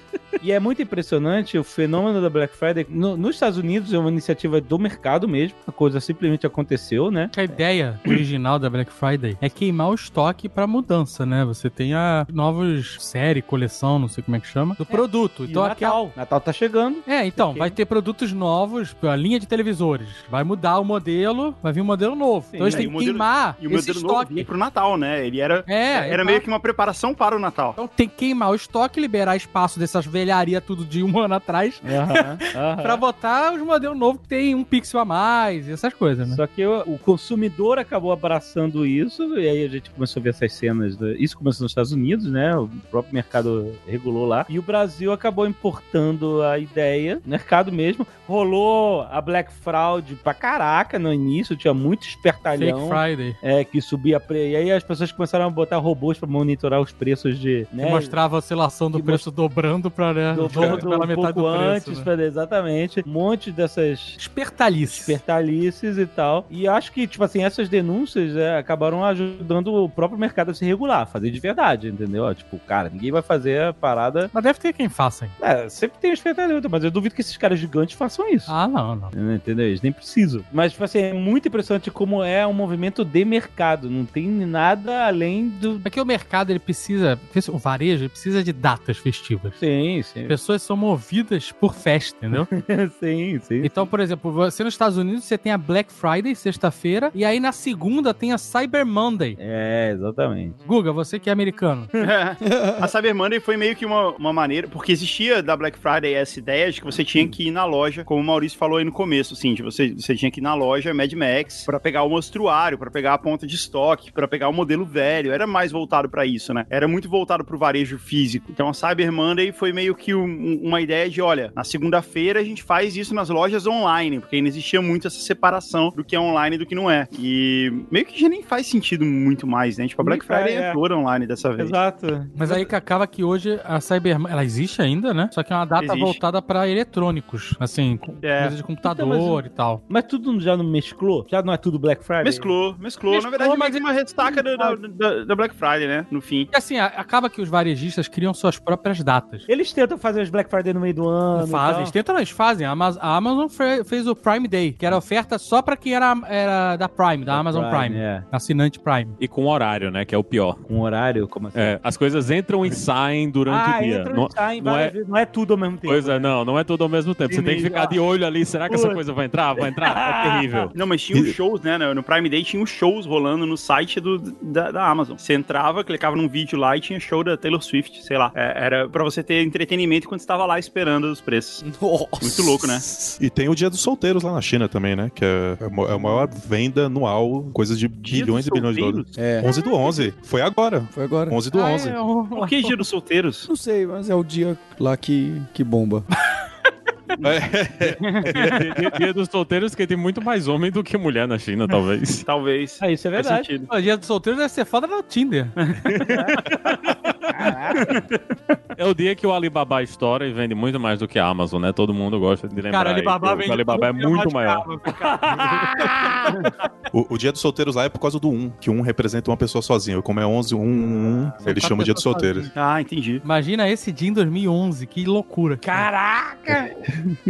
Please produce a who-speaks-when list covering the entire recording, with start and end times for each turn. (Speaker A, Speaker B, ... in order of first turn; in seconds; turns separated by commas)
Speaker A: 0.4-7.3, Speaker B: 7.3-16.0, Speaker A: 14.8-17.8, Speaker B: 17.1-24.5, Speaker A: 22.5-22.9, Speaker C: 22.6-27.8, Speaker B: 25.7-26.4, Speaker B: 27.8-36.4, Speaker A: 31.8-33.0, Speaker A: 36.3-58.1, Speaker B: 52.6-53.4, Speaker B: 57.8-62.1, Speaker A: 58.9-59.2, Speaker A: 60.3-64.2, Speaker B: 64.2-65.2, Speaker A: 64.9-74.3, Speaker B: 74.3-75.3, Speaker A: 75.4-78.5, Speaker B: 78.5-79.1, Speaker A: 79.1-85.8, Speaker B: 85.8-89.6, Speaker A: 89.6-90.3, Speaker B: 90.2-92.5, Speaker A: 92.5-93.9, Speaker B: 93.6-99.4, Speaker A: 99.4-100.6, Speaker B: 100.6-101.9, Speaker C: 102.0-131.8, Speaker D: 102.4-102.9, Speaker A: 130.0-130.8, Speaker A: 131.6-132.4, Speaker B: 132.3-139.8, Speaker C: 135.8-136.2, Speaker C: 138.2-138.6, Speaker A: 138.8-142.5, Speaker C: 142.2-146.5, Speaker B: 143.1-143.8, Speaker A: 144.2-144.8, Speaker B: 146.5-149.4, Speaker A: 149.5-151.9, Speaker B: 151.3-159.2, Speaker A: 157.2-158.2, Speaker E: 159.2-160.6, Speaker A: 160.7-161.8, Speaker E: 161.5-164.9, Speaker A: 163.4-166.3, Speaker E: 165.8-170.7, Speaker A: 167.3-168.0, Speaker A: 168.7-169.0, Speaker A: 169.6-170.7, Speaker C: 170.7-181.6, Speaker D: 181.6-183.2, Speaker C: 182.2-182.8, Speaker F: 183.2-192.0, Speaker C: 188.0-190.0, Speaker D: 189.1-189.5, Speaker D: 190.9-191.4, Speaker B: 191.5-192.8, Speaker C: 192.3-193.5, Speaker D: 193.4-196.1, Speaker C: 197.2-198.9, Speaker F: 197.2-198.6, Speaker E: 198.3-202.2, Speaker C: 202.2-203.7, Speaker A: 202.8-203.5, Speaker B: 203.7-205.5, Speaker C: 205.6-206.4, Speaker A: 206.1-206.4, Speaker A: 207.3-208.1, Speaker C: 207.8-208.0, Speaker E: 208.8-214.7, Speaker B: 212.7-215.5, Speaker A: 215.0-216.4, Speaker F: 216.9-222.5, Speaker B: 221.4-222.5, Speaker C: 222.5-223.2, Speaker B: 223.2-225.9, Speaker A: 225.6-226.7